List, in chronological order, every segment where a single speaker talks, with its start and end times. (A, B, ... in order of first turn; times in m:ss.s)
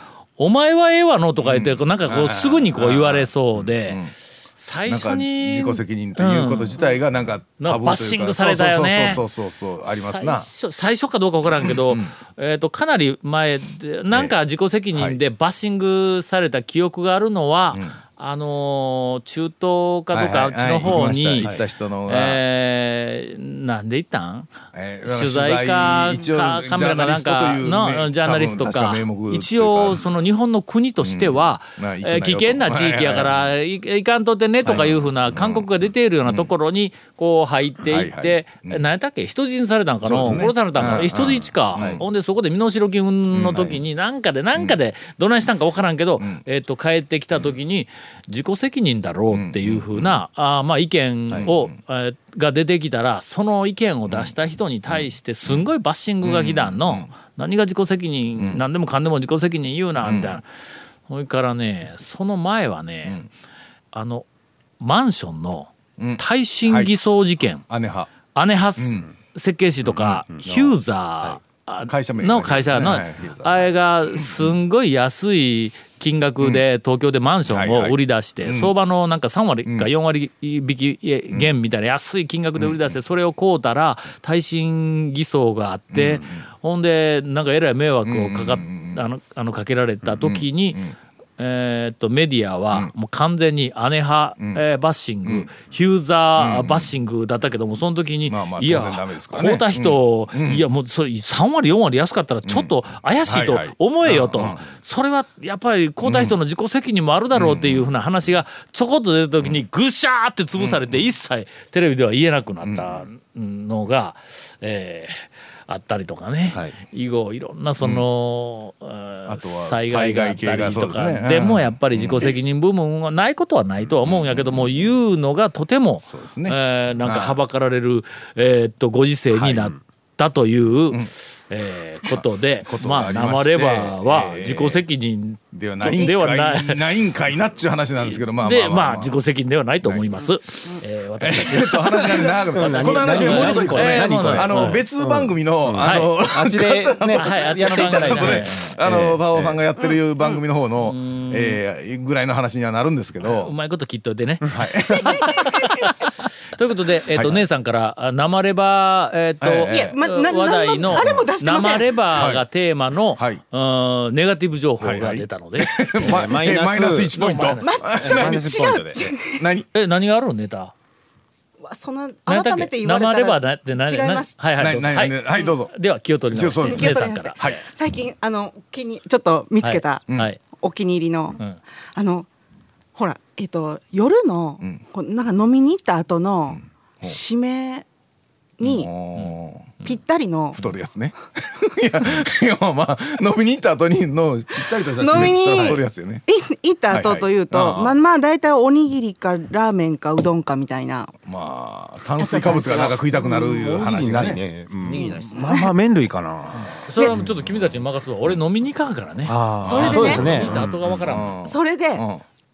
0:00.4-0:06.9 A
0:01.4-0:04.1 B
0:04.9-0:10.5 B
0:07.6-0:09.2 A
0:09.9-0:21.5 A
0:11.6-0:12.1 B
0:14.9-0:15.2 B
0:20.1-0:22.4 B
0:21.4-0:21.6 C
0:22.1-1:00.5 A
0:24.7-0:30.1 B
0:31.0-0:33.4 B
0:34.7-0:35.7 B
0:37.8-0:38.8 B
0:40.0-0:42.0 B
0:40.2-0:40.5 C
0:43.3-0:43.8 B
0:49.3-0:50.1 B
0:51.3-0:51.7 B
0:54.9-0:55.6 B
0:56.2-0:57.1 B
1:00.0-1:00.4 B
1:01.1-1:03.2 A
1:03.9-1:04.3 A
1:04.8-1:07.6 A
1:06.0-1:06.9 B
1:07.7-1:08.1 B
1:08.3-1:30.8 A
1:08.8-1:09.0 B
1:10.3-1:11.4 C
1:11.9-1:14.5 B
1:17.5-1:18.7 B
1:22.6-1:23.0 B
1:25.9-1:26.4 B
1:28.0-1:29.0 B
1:30.0-1:30.9 B
1:31.4-2:16.8 A
1:36.4-1:36.9 B
1:38.3-1:40.6 B
1:42.5-1:42.7 B
1:43.3-1:44.7 B
1:46.0-1:46.4 B
1:47.3-1:47.9 B
1:50.6-1:51.0 B
1:52.6-1:53.1 B
1:59.3-2:02.4 B
2:03.9-2:04.9 B
2:06.1-2:07.4 B
2:12.1-2:14.8 B
2:15.5-2:19.2 B
2:18.1-2:24.8 A
2:19.8-2:20.1 B
2:21.2-2:33.5 B
2:22.5-2:29.6 C
2:25.8-2:26.1 A
2:27.2-2:28.8 A
2:29.8-2:30.4 D
2:30.9-2:31.6 A
2:33.2-2:46.4 A
2:34.5-2:35.9 B
2:37.1-2:37.4 B
2:39.4-2:40.0 B
2:39.7-2:41.9 D
2:40.9-2:41.3 B
2:42.1-2:42.4 B
2:44.8-2:48.6 B
2:46.0-2:47.2 C
2:47.1-2:48.0 A
2:47.6-2:49.4 D
2:48.0-2:49.1 C
2:49.3-2:49.7 B
2:49.7-2:50.7 A
2:51.6-2:54.3 D
2:52.3-2:57.5 A
2:54.6-2:55.7 B
2:56.3-2:57.6 B
2:56.6-3:01.4 D
2:59.6-3:00.4 A
3:02.0-3:02.3 D
3:03.0-3:07.9 D
3:06.5-3:07.2 B
3:08.6-3:08.9 D
3:08.6-3:09.8 B
3:09.8-3:10.6 D
3:10.6-3:16.2 B
3:14.8-3:21.1 D
3:16.9-3:18.0 B
3:21.3-3:24.4 B
3:22.2-3:23.0 D
3:23.2-3:26.8 C
3:24.9-3:25.7 D
3:26.8-3:31.4 A
3:29.3-3:30.8 C
3:29.7-3:30.5 D
3:29.7-3:32.2 B
3:31.4-3:32.0 D